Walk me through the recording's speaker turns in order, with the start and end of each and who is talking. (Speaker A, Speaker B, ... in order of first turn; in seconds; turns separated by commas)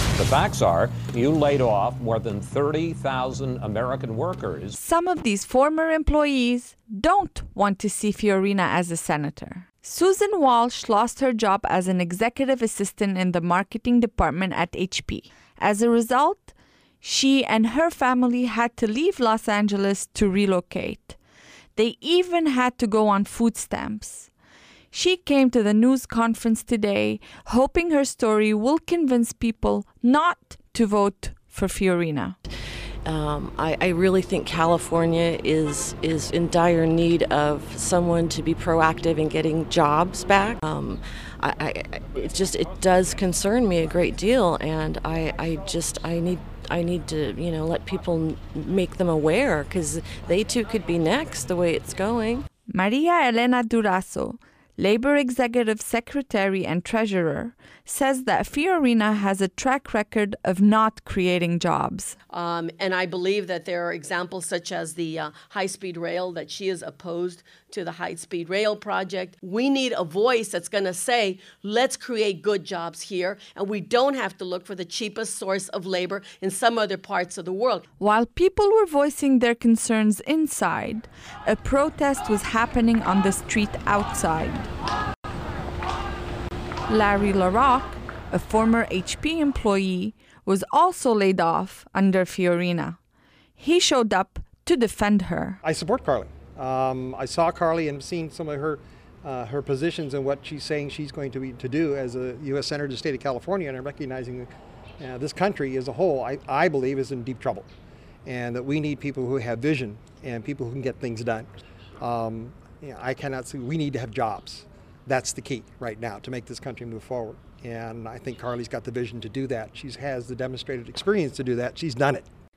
Speaker A: 0.1-4.8, Speaker B: 4.7-21.2, Speaker B: 21.8-24.3, Speaker B: 24.9-32.4, Speaker C: 33.0-52.4, Speaker B: 52.7-62.1, Speaker D: 62.3-77.8, Speaker B: 78.0-84.7, Speaker B: 86.9-93.0, Speaker B: 93.6-95.6, Speaker E: 95.6-107.7, Speaker E: 108.2-111.5, Speaker E: 112.0-122.2